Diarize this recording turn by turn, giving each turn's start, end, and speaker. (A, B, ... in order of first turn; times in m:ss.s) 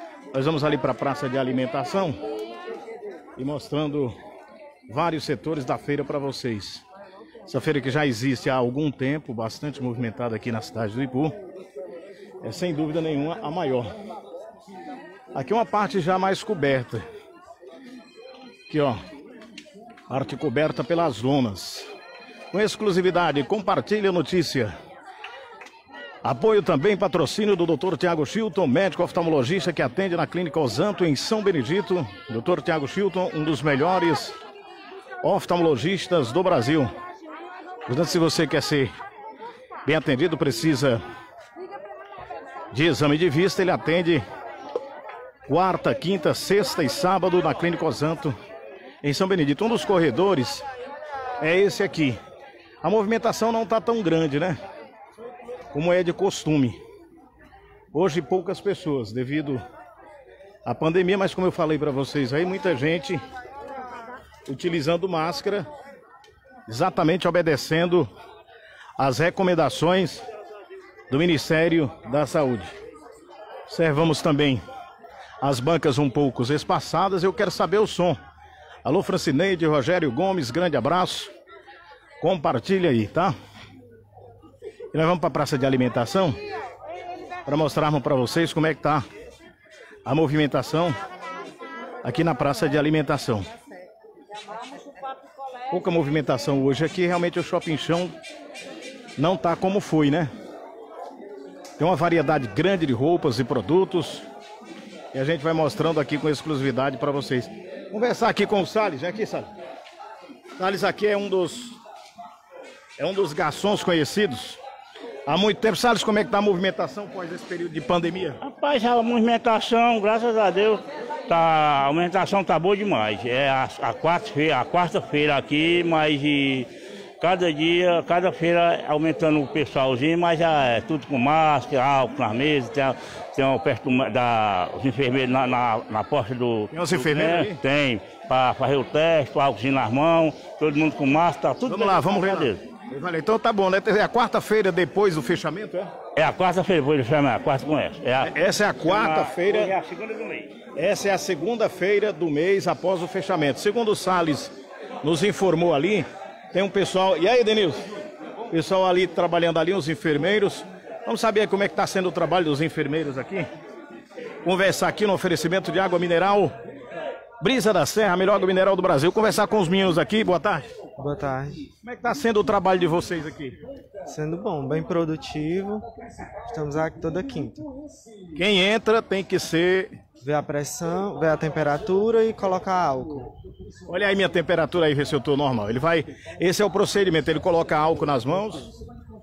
0:00.3-0:02.2 A
0:03.4-0:04.2 A
0:04.9-0:06.8 A
0:07.4-0:11.4 A
0:12.4-0:13.9 A
0:15.3-0:17.0 A
0:18.7-0:19.0 A
0:20.1-0:21.9 A
0:22.5-0:24.7 A
0:26.2-0:34.4 A
0:35.2-0:36.9 A
0:37.9-0:38.9 A
0:39.8-0:41.0 A
0:42.7-0:44.2 A
0:45.5-0:48.4 A
0:49.0-0:50.6 A
0:51.4-0:52.2 A
0:52.8-0:54.6 A
0:55.7-0:56.8 A
0:57.9-0:59.6 A
1:00.6-1:03.2 A
1:04.5-1:05.7 A
1:06.7-1:08.1 A
1:09.0-1:10.2 A
1:11.1-1:12.7 A
1:13.7-1:14.6 A
1:15.4-1:18.2 A
1:18.8-1:21.3 A
1:22.2-1:23.3 A
1:24.9-1:26.4 A
1:27.4-1:29.0 A
1:30.0-1:31.0 A
1:32.0-1:33.5 A
1:35.7-1:38.2 A
1:39.2-1:40.3 A
1:41.8-1:44.2 A
1:45.1-1:49.5 A
1:50.6-1:51.8 A
1:53.0-1:54.6 A
1:55.2-1:58.4 A
1:58.4-2:06.7 B
2:07.2-2:22.6 B
2:16.7-2:17.6 A
2:21.6-2:25.9 A
2:26.2-2:30.5 B
2:28.2-2:29.7 A
2:30.7-2:37.9 A
2:38.5-2:43.4 A
2:44.4-2:46.6 A
2:47.4-2:50.7 A
2:51.0-2:51.6 C
2:51.8-2:53.6 A
2:54.1-2:55.8 C
2:56.5-2:57.7 C
2:58.3-3:00.0 A
3:00.2-3:03.3 C
3:03.9-3:08.7 A